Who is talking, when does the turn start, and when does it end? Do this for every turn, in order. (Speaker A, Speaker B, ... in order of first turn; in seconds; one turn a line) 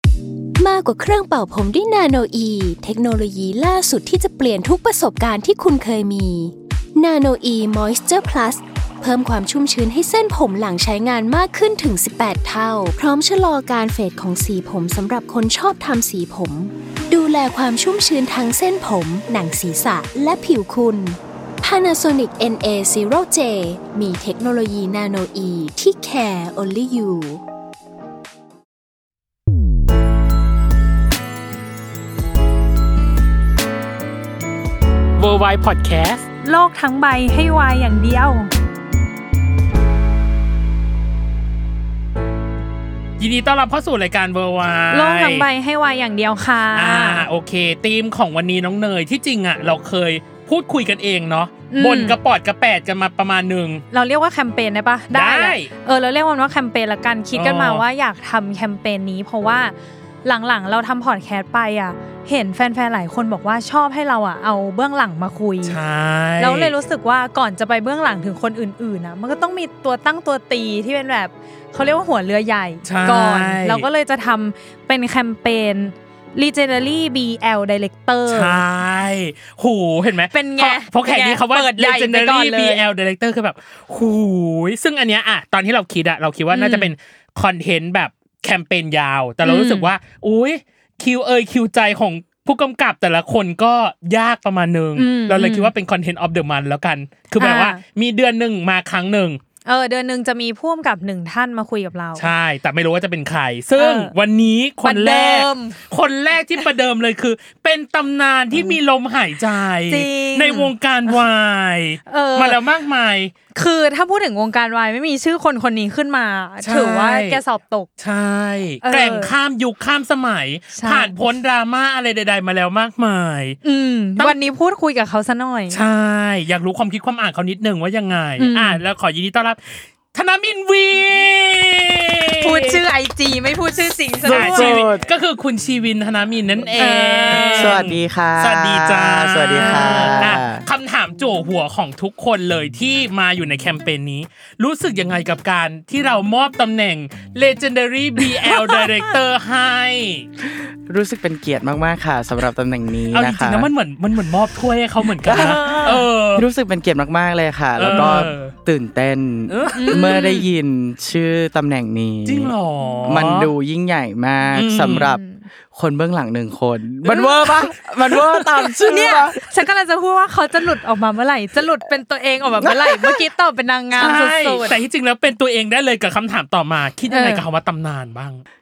Speaker A: 0.6-27.4
Speaker B: 35.2-36.3
Speaker C: 36.4-38.5
Speaker B: 43.2-45.5
Speaker C: 44.9-47.3
Speaker B: 46.7-53.8
Speaker C: 51.7-52.2
Speaker C: 53.9-59.7
Speaker B: 55.1-55.7
Speaker B: 57.3-57.8
Speaker C: 60.2-65.8
Speaker B: 65.6-66.7
Speaker C: 66.4-78.6
Speaker B: 72.8-73.9
Speaker B: 78.3-99.4
Speaker C: 80.3-82.8
Speaker C: 86.5-86.9
Speaker C: 89.4-89.9
Speaker C: 95.0-95.7
Speaker C: 97.4-97.8
Speaker C: 99.7-102.3
Speaker B: 102.2-113.3
Speaker C: 103.8-104.1
Speaker C: 104.8-105.8
Speaker C: 109.9-111.2
Speaker C: 112.1-112.6
Speaker C: 113.5-117.9
Speaker B: 116.6-117.4
Speaker B: 118.0-123.6
Speaker C: 118.8-119.3
Speaker C: 120.7-121.1
Speaker C: 123.6-125.8
Speaker B: 125.7-132.8
Speaker C: 128.4-128.8
Speaker C: 132.4-134.8
Speaker B: 134.2-150.2
Speaker D: 134.2-135.1
Speaker C: 136.8-137.8
Speaker D: 137.3-140.7
Speaker C: 139.7-140.2
Speaker D: 150.4-153.7
Speaker B: 153.1-156.5
Speaker D: 155.2-162.5
Speaker C: 155.3-156.0
Speaker B: 157.8-158.5
Speaker B: 159.5-160.4
Speaker C: 159.7-160.4
Speaker B: 162.2-163.5
Speaker C: 162.8-163.1
Speaker D: 163.1-165.2
Speaker B: 164.5-165.1
Speaker C: 165.0-165.4
Speaker D: 165.7-169.4
Speaker B: 167.1-168.4
Speaker C: 168.8-174.8
Speaker D: 172.6-173.2
Speaker B: 173.9-178.4
Speaker C: 177.1-177.4